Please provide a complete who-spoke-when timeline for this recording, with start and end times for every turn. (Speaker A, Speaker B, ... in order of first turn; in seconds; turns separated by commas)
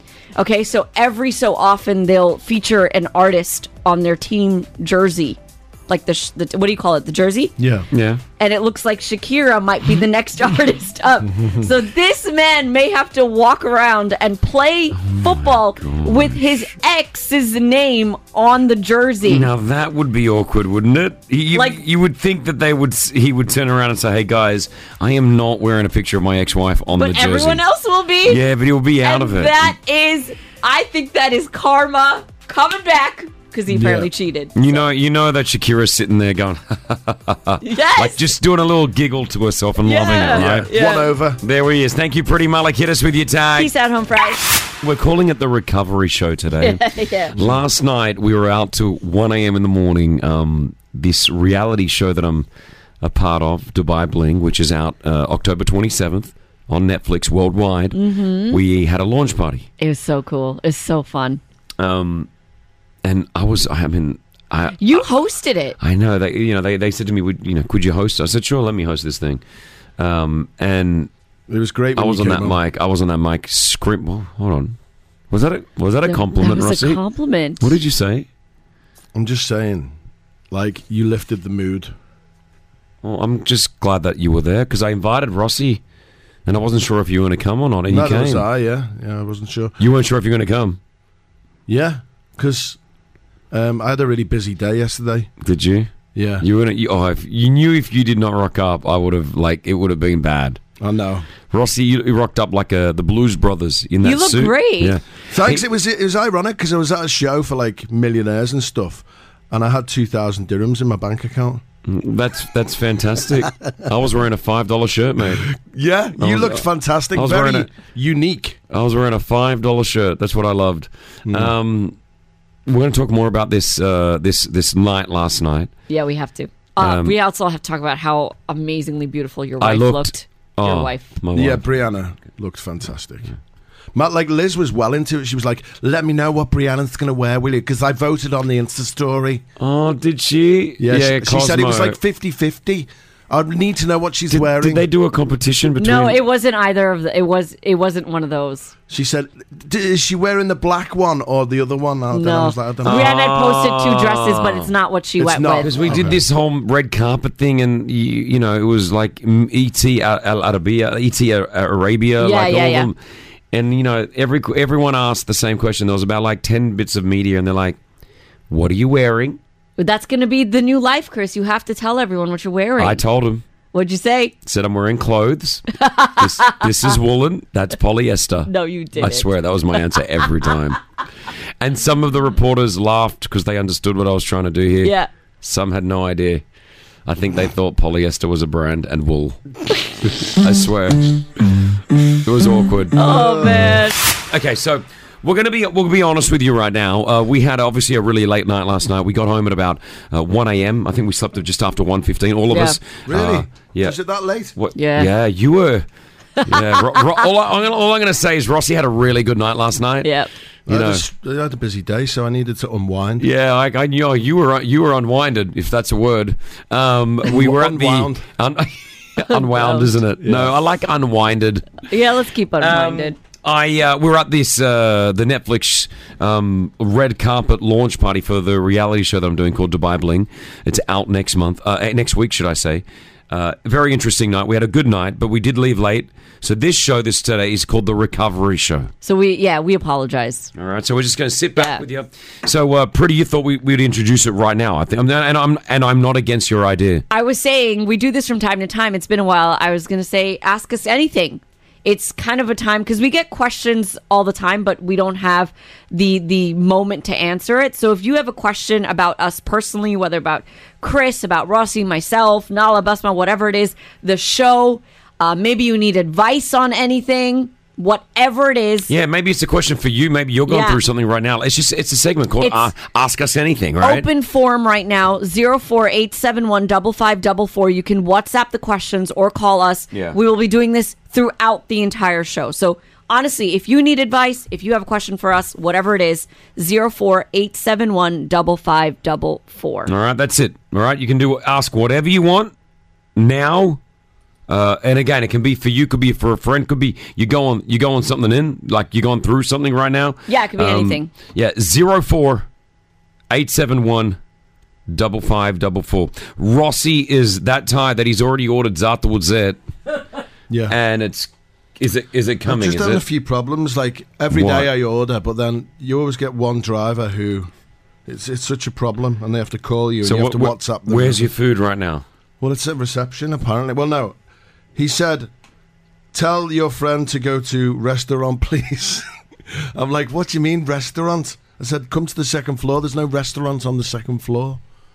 Speaker A: 0.4-7.5, Speaker B: 7.6-7.9, Speaker C: 7.9-8.2, Speaker A: 8.4-19.5, Speaker B: 11.2-11.7, Speaker C: 15.0-16.4, Speaker C: 19.2-27.6, Speaker A: 21.5-21.8, Speaker A: 27.0-28.4, Speaker C: 28.2-29.8, Speaker A: 29.0-34.8, Speaker B: 33.7-34.1, Speaker C: 34.5-40.7, Speaker A: 37.6-38.2, Speaker A: 39.9-41.1, Speaker B: 40.3-41.4, Speaker C: 41.4-43.7, Speaker A: 43.6-44.4, Speaker C: 44.8-46.8, Speaker A: 46.6-47.4, Speaker C: 47.4-52.5, Speaker C: 53.0-58.0, Speaker A: 57.9-58.6, Speaker C: 58.5-59.7, Speaker A: 59.8-61.4, Speaker C: 61.8-62.3, Speaker C: 63.0-65.1, Speaker A: 64.8-65.8, Speaker C: 65.8-69.4, Speaker C: 70.0-71.1, Speaker B: 71.5-72.6, Speaker C: 72.0-74.8, Speaker C: 75.3-77.0, Speaker A: 76.1-77.7, Speaker C: 77.6-78.2, Speaker B: 79.2-79.9, Speaker B: 80.5-81.9, Speaker C: 83.0-85.8, Speaker C: 86.5-88.5, Speaker B: 87.9-89.8, Speaker C: 89.8-90.8, Speaker B: 91.7-92.8, Speaker B: 93.5-95.3, Speaker C: 95.4-100.6, Speaker B: 96.1-96.5, Speaker B: 100.8-101.2, Speaker C: 101.5-105.6, Speaker A: 104.0-105.0, Speaker B: 105.3-111.6, Speaker C: 111.9-115.5, Speaker B: 115.5-118.6, Speaker C: 116.2-117.7, Speaker C: 118.7-122.0, Speaker B: 121.2-121.5, Speaker C: 122.7-125.7, Speaker A: 125.9-131.1, Speaker C: 126.8-127.2, Speaker C: 129.6-131.6, Speaker B: 131.3-133.3, Speaker B: 133.9-139.4, Speaker C: 139.6-142.0, Speaker B: 140.8-144.8, Speaker C: 144.3-146.2, Speaker A: 145.8-148.7, Speaker B: 148.9-153.1, Speaker A: 152.1-155.7, Speaker C: 152.8-154.7, Speaker B: 155.2-156.2, Speaker C: 155.6-163.0, Speaker A: 162.2-162.9, Speaker C: 163.5-167.8, Speaker C: 168.5-169.4, Speaker A: 169.8-173.0, Speaker C: 172.8-173.4, Speaker A: 173.7-174.3, Speaker C: 174.4-175.7, Speaker A: 175.8-176.6, Speaker C: 176.2-180.8, Speaker A: 178.5-179.3, Speaker C: 181.6-186.4, Speaker A: 184.8-185.1, Speaker C: 187.1-189.4, Speaker C: 190.4-191.2, Speaker C: 192.2-193.0, Speaker A: 193.0-193.9, Speaker B: 193.0-193.7, Speaker C: 194.3-204.0, Speaker A: 202.5-202.8, Speaker B: 203.1-204.5, Speaker C: 204.6-205.8, Speaker A: 204.8-205.1, Speaker C: 206.4-210.1, Speaker A: 210.0-210.3, Speaker C: 210.7-211.0, Speaker B: 210.7-213.2, Speaker C: 213.2-221.8, Speaker B: 217.2-218.2, Speaker A: 219.3-219.9, Speaker B: 220.2-220.6, Speaker A: 221.9-223.2, Speaker C: 222.6-238.9, Speaker A: 239.0-240.5, Speaker C: 240.6-247.1, Speaker A: 241.6-241.8, Speaker A: 247.1-268.9, Speaker C: 268.9-274.1, Speaker A: 270.5-270.8, Speaker A: 272.4-272.7, Speaker A: 273.8-289.9, Speaker C: 279.9-280.2, Speaker C: 289.9-292.5, Speaker C: 293.2-293.8, Speaker C: 294.5-302.5, Speaker A: 300.3-301.1, Speaker C: 303.3-304.2, Speaker C: 304.9-309.6, Speaker B: 310.5-310.8, Speaker C: 310.7-313.0, Speaker B: 312.5-317.5, Speaker C: 314.3-314.7, Speaker B: 318.1-321.3, Speaker C: 320.0-322.0, Speaker B: 322.4-324.2, Speaker B: 324.8-325.3, Speaker B: 326.1-329.0, Speaker B: 329.8-334.6